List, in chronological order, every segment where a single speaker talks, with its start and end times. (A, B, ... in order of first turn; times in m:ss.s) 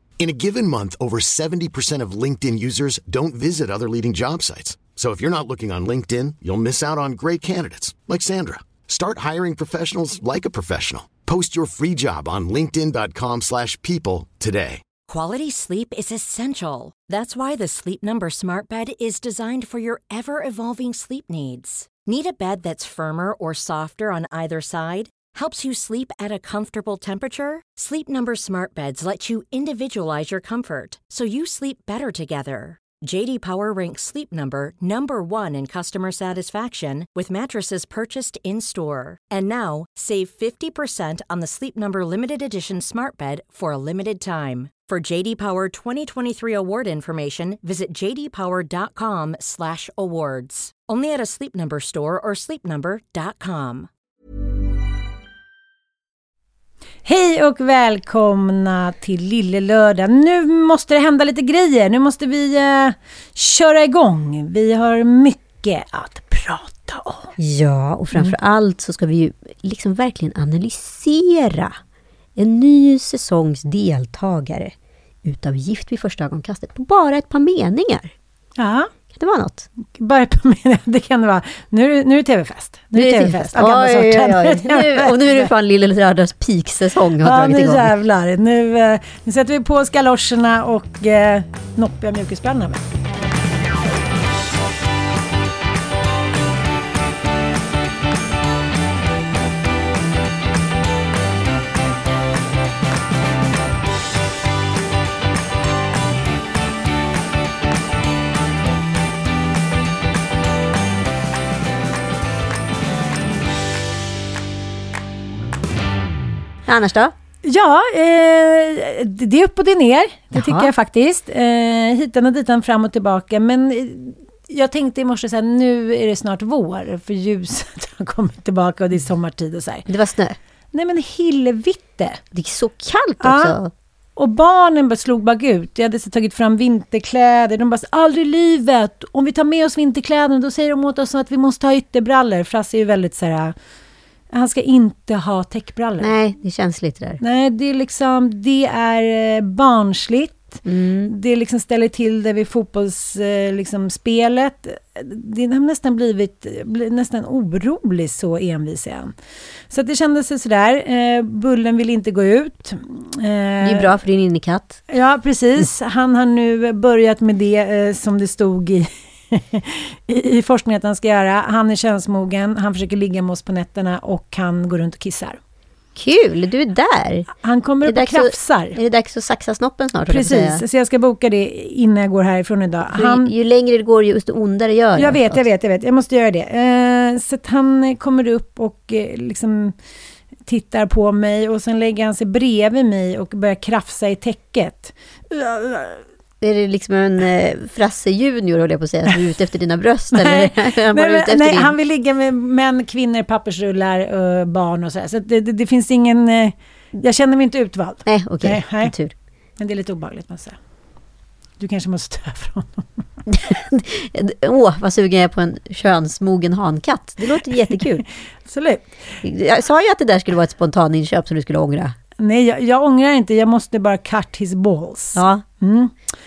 0:00.2-0:14.8 A
0:15.1-0:53.9 B
0:57.0-1:07.3 C
1:07.4-1:11.8 D
1:12.4-1:14.7 D
1:15.2-1:18.1 D
1:18.6-1:18.9 C
1:19.1-1:19.7 D
1:19.9-1:25.5 C
1:22.9-1:27.9 D
1:27.2-1:32.8 C
1:56.7-1:57.1 D
1:57.4-2:09.9 C
2:00.3-2:00.7 D
2:09.9-2:10.4 D
2:10.7-2:12.2 C
2:12.3-2:13.7 D
2:13.2-2:13.5 C
2:14.2-2:23.6 C
2:24.3-2:26.2 C
2:26.0-2:27.2 D
2:27.2-2:39.1 C
2:30.6-2:31.1 D
2:39.7-2:43.9 C
2:43.6-2:44.8 D
2:44.9-2:55.4 C
2:56.0-2:57.3 D
2:57.4-2:58.8 C
2:57.8-3:00.6 D
3:00.1-3:03.3 C
3:02.9-3:05.4 D
3:05.0-3:09.8 C
3:10.4-3:16.0 C
3:16.4-3:21.7 D
3:20.1-3:28.9 C
3:28.0-3:29.1 D
3:29.6-3:30.6 C
3:31.6-3:32.9 C
3:33.3-3:38.0 D
3:38.4-3:38.9 C
3:39.2-3:42.0 D
3:42.2-3:45.9 C
3:45.1-3:45.4 D